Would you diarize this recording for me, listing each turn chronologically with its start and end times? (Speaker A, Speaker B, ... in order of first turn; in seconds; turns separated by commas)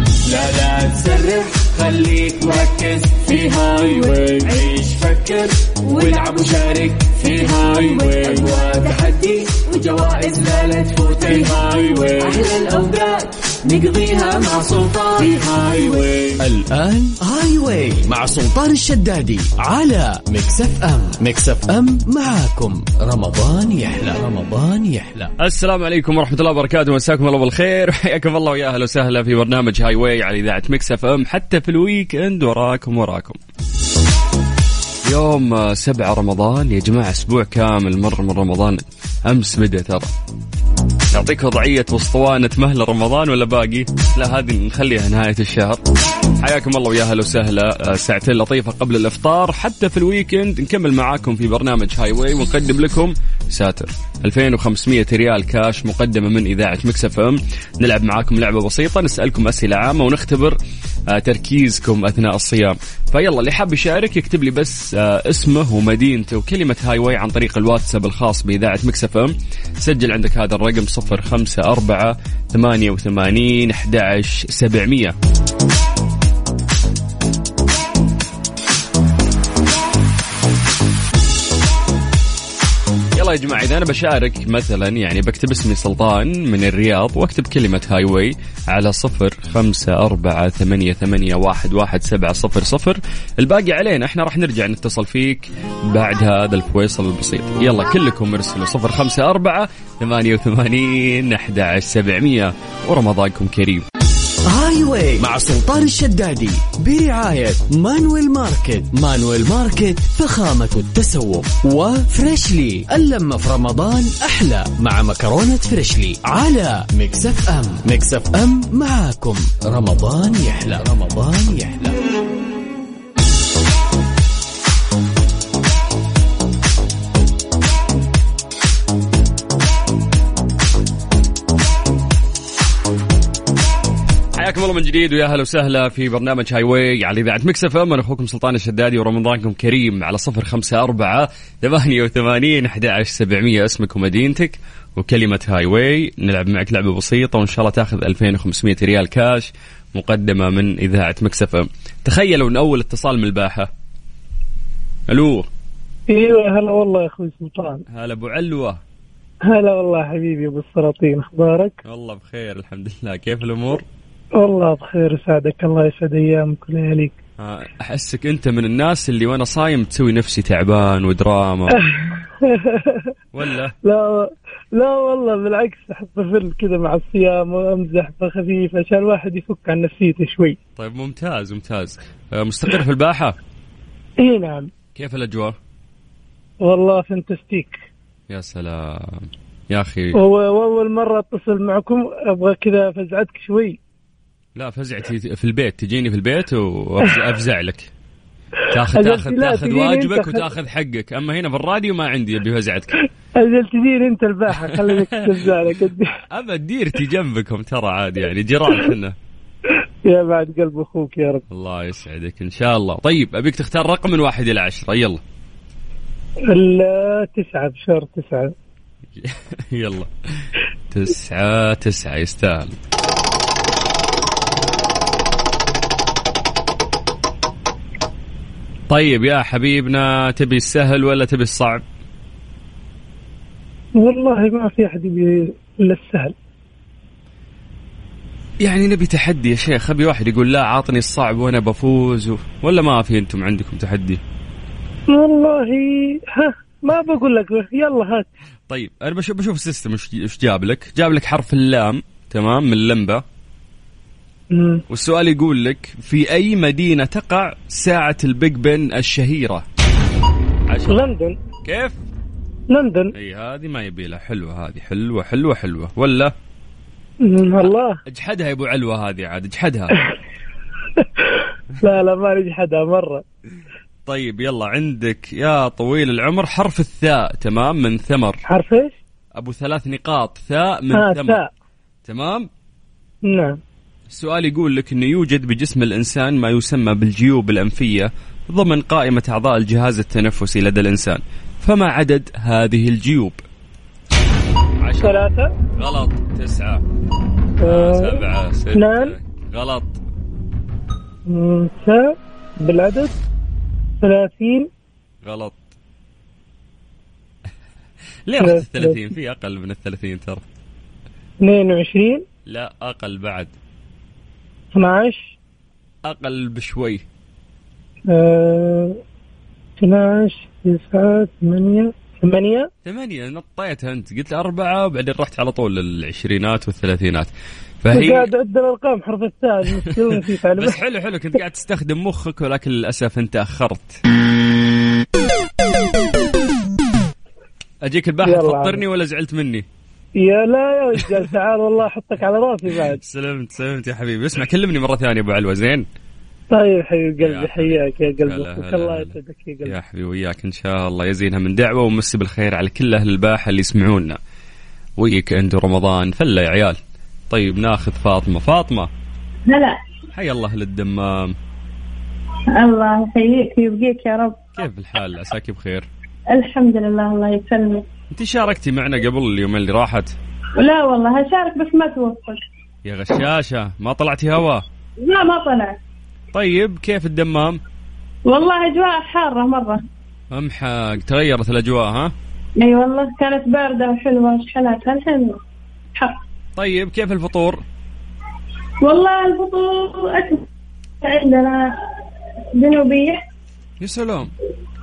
Speaker A: 0.2-16.4, Speaker B: 16.4-25.3, Speaker C: 25.4-33.4, Speaker C: 35.0-40.1, Speaker C: 41.1-45.8, Speaker C: 46.4-60.6, Speaker C: 61.1-75.1, Speaker C: 83.1-103.8, Speaker B: 104.5-122.0, Speaker C: 134.3-153.7, Speaker C: 155.1-155.5, Speaker D: 156.1-157.8, Speaker C: 157.9-158.8, Speaker D: 159.5-161.8, Speaker C: 161.8-163.8, Speaker D: 164.4-167.1, Speaker C: 167.4-171.8, Speaker D: 171.8-173.0, Speaker C: 173.3-173.7, Speaker D: 173.8-180.6, Speaker C: 180.8-183.4, Speaker D: 184.2-184.7, Speaker C: 184.9-185.6, Speaker D: 186.6-187.8, Speaker C: 188.3-190.2, Speaker D: 190.1-193.8, Speaker C: 194.6-197.9, Speaker C: 198.7-202.9, Speaker D: 198.9-200.4, Speaker D: 203.4-206.1, Speaker C: 204.6-205.5, Speaker C: 206.3-209.1, Speaker D: 210.1-211.4, Speaker C: 211.5-215.2, Speaker D: 216.5-218.5, Speaker C: 219.2-222.8, Speaker C: 228.9-231.8, Speaker D: 234.0-236.3, Speaker C: 238.6-244.2, Speaker D: 245.1-248.3, Speaker C: 248.7-253.2, Speaker D: 254.5-254.8, Speaker C: 254.9-259.6, Speaker C: 260.7-261.1, Speaker D: 260.9-261.4, Speaker C: 261.6-262.0, Speaker D: 262.7-263.1, Speaker C: 263.1-266.3, Speaker D: 267.2-268.0, Speaker C: 267.6-269.9, Speaker D: 271.8-273.2, Speaker C: 274.1-278.4, Speaker D: 278.5-278.9, Speaker C: 279.4-281.4, Speaker D: 280.9-281.5, Speaker C: 282.1-282.5, Speaker D: 283.3-283.6, Speaker C: 284.1-293.4, Speaker C: 294.8-295.2, Speaker D: 295.0-295.5, Speaker C: 295.8-296.8, Speaker D: 297.6-298.2, Speaker C: 297.6-300.0, Speaker D: 298.7-299.1, Speaker D: 301.3-303.1, Speaker D: 304.0-304.7, Speaker C: 305.2-305.6, Speaker C: 308.3-310.4, Speaker D: 308.4-309.0, Speaker D: 311.4-312.2, Speaker C: 312.5-313.5, Speaker D: 314.7-315.3, Speaker C: 316.0-317.0, Speaker D: 318.1-319.0, Speaker D: 319.8-322.7, Speaker C: 322.8-327.3, Speaker C: 327.8-328.3, Speaker D: 327.9-330.8, Speaker C: 330.6-334.0, Speaker C: 337.8-339.6, Speaker D: 338.2-338.8, Speaker D: 340.2-343.0, Speaker C: 343.0-345.9, Speaker D: 346.5-349.7, Speaker C: 347.2-354.2, Speaker C: 355.0-356.8, Speaker C: 357.3-358.9, Speaker E: 359.5-359.8, Speaker C: 360.1-361.4, Speaker E: 362.5-364.4, Speaker C: 364.6-365.9, Speaker E: 366.3-367.8, Speaker C: 368.1-370.1, Speaker E: 370.6-372.4, Speaker C: 372.8-374.6, Speaker E: 375.0-375.8, Speaker C: 376.3-377.6, Speaker E: 378.2-379.8, Speaker C: 380.3-382.1, Speaker E: 382.6-385.4, Speaker C: 386.6-387.6, Speaker E: 388.8-390.4, Speaker E: 391.0-391.7, Speaker E: 392.5-393.2, Speaker C: 393.8-394.3